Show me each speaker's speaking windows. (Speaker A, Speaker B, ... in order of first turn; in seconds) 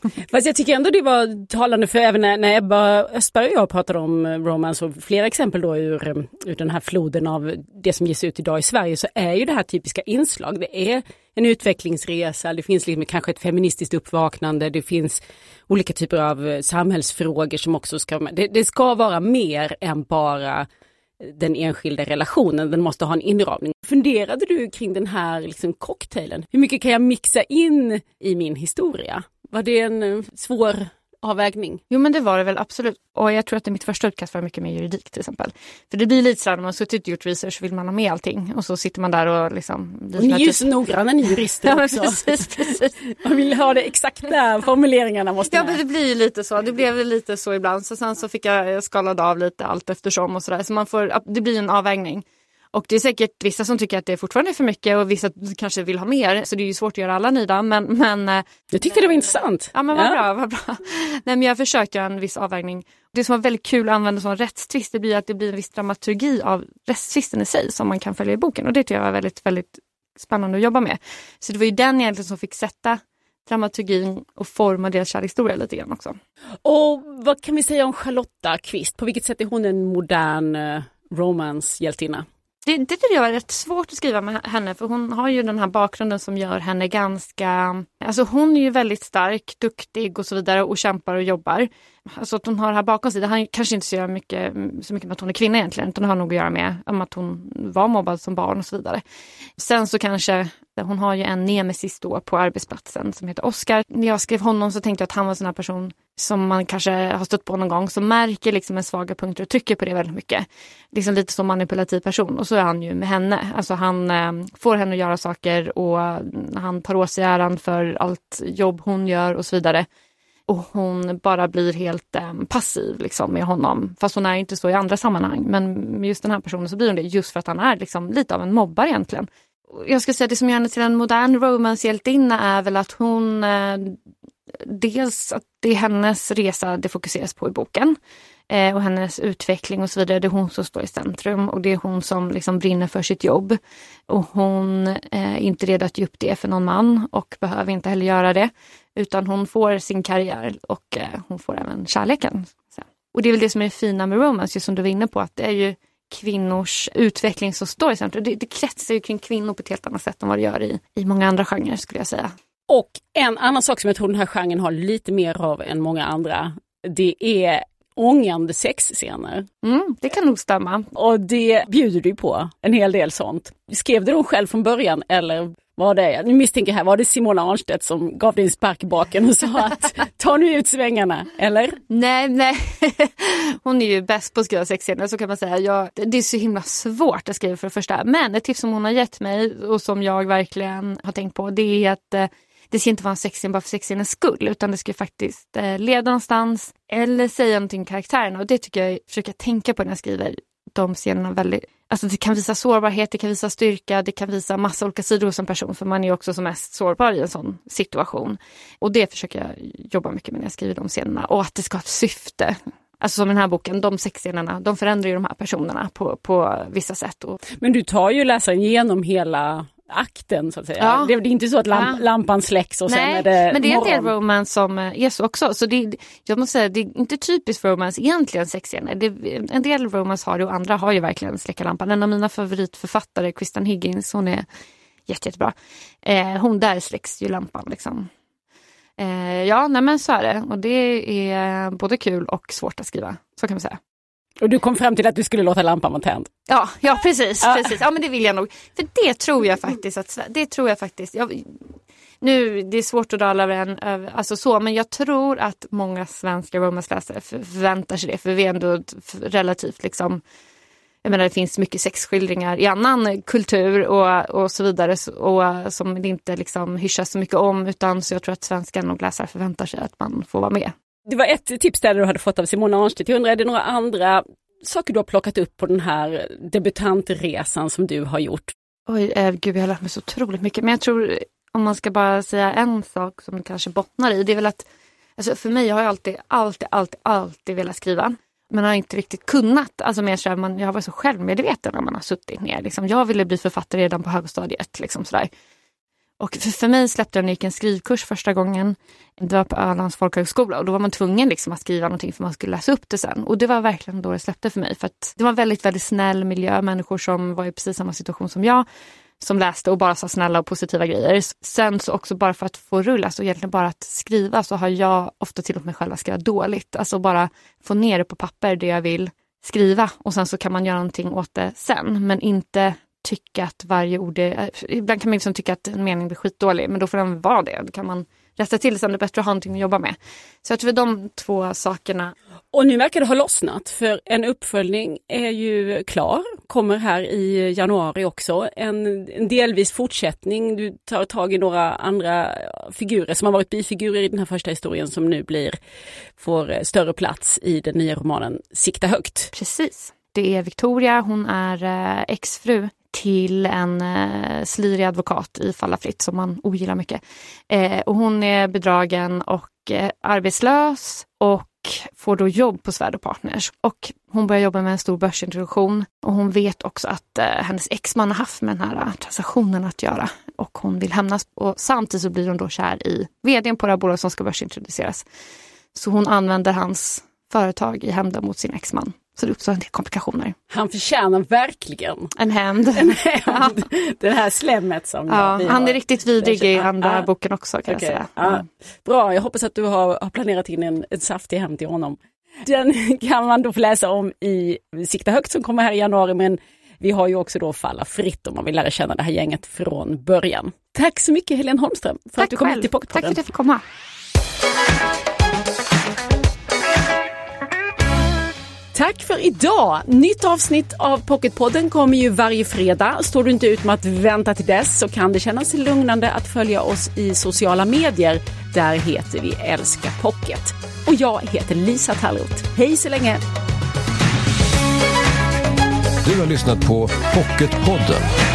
Speaker A: 0.3-20.7, 21.2-31.8, 40.2-45.8, 58.7-60.2, 76.6-82.2, 162.7-169.4, 170.9-181.8, 217.6-224.1, 244.4-246.3, 271.1-278.5, 332.5-345.6, 346.2-349.3, 380.5-382.1, 382.7-387.1, 387.7-403.2, 408.7-423.2
Speaker B: 31.9-40.7, 41.6-43.0, 45.5-58.4, 59.7-76.2, 82.7-99.0, 99.6-119.9, 120.5-134.0, 134.6-138.0, 138.5-162.3, 169.6-170.9, 181.9-217.4, 220.8-221.1, 221.7-222.0, 222.9-234.4, 235.1-238.1, 239.0-243.8, 246.5-251.6, 252.2-260.2, 261.0-270.7, 278.9-284.6, 285.2-295.3, 296.2-308.6, 309.2-332.1, 349.3-375.0, 375.7-380.3, 382.1-383.6, 385.1-388.4, 402.2-403.6
Speaker C: 426.0-428.1